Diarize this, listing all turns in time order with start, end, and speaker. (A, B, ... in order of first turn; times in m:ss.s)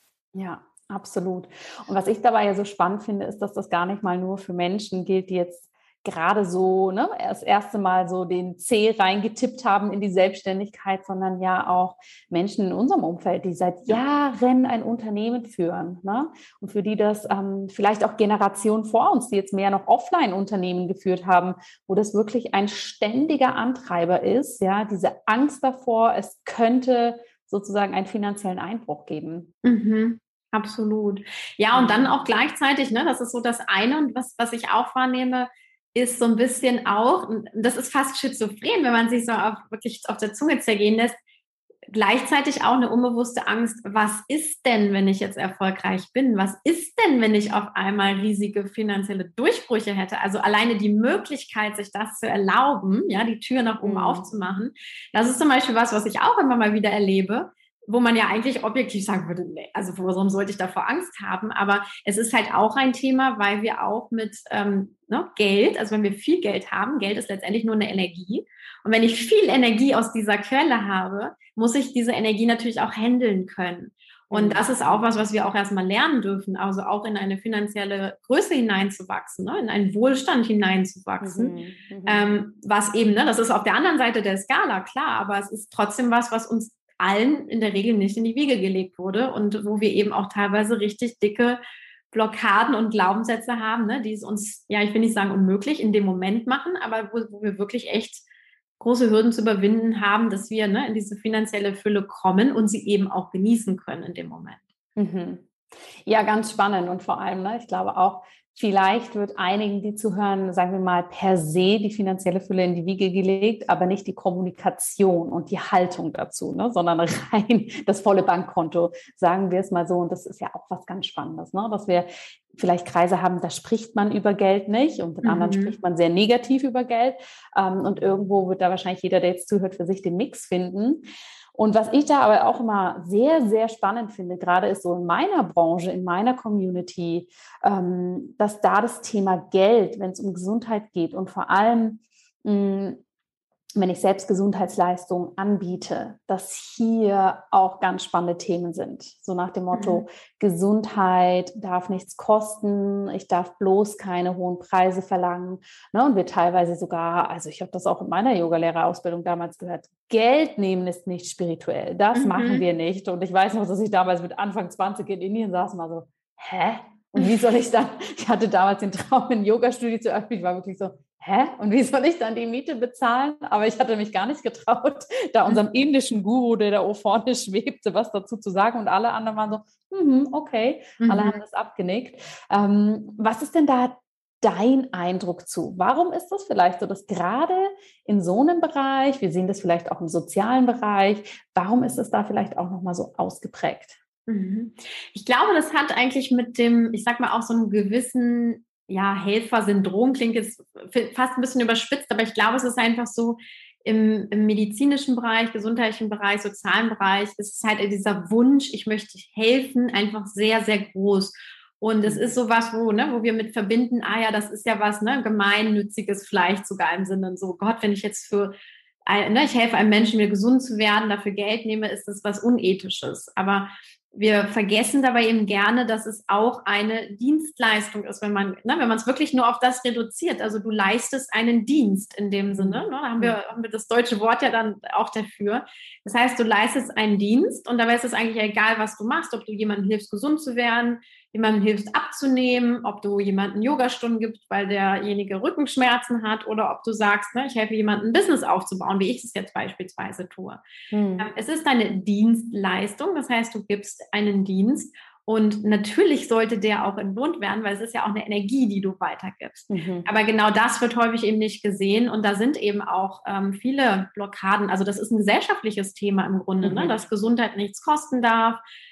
0:00.3-0:29.5 A
0:29.6-0:41.2 B
0:31.7-0:32.1 A
0:41.9-1:21.6 B
0:53.8-0:54.2 A
1:14.3-1:14.7 A
1:21.2-1:22.4 A
1:22.1-1:31.6 B
1:32.1-1:38.2 B
1:38.8-1:44.6 B
1:45.0-1:45.4 A
1:46.1-2:11.0 A
2:05.2-2:05.7 B
2:11.6-2:23.0 A
2:23.8-3:14.0 A
2:29.7-2:30.0 B
2:42.2-2:42.6 B
3:01.0-3:01.4 B
3:14.3-4:10.6 B
3:52.5-3:53.4 A
4:10.9-4:11.3 A
4:11.2-4:28.6 B
4:19.7-4:20.1 A
4:26.6-4:26.9 A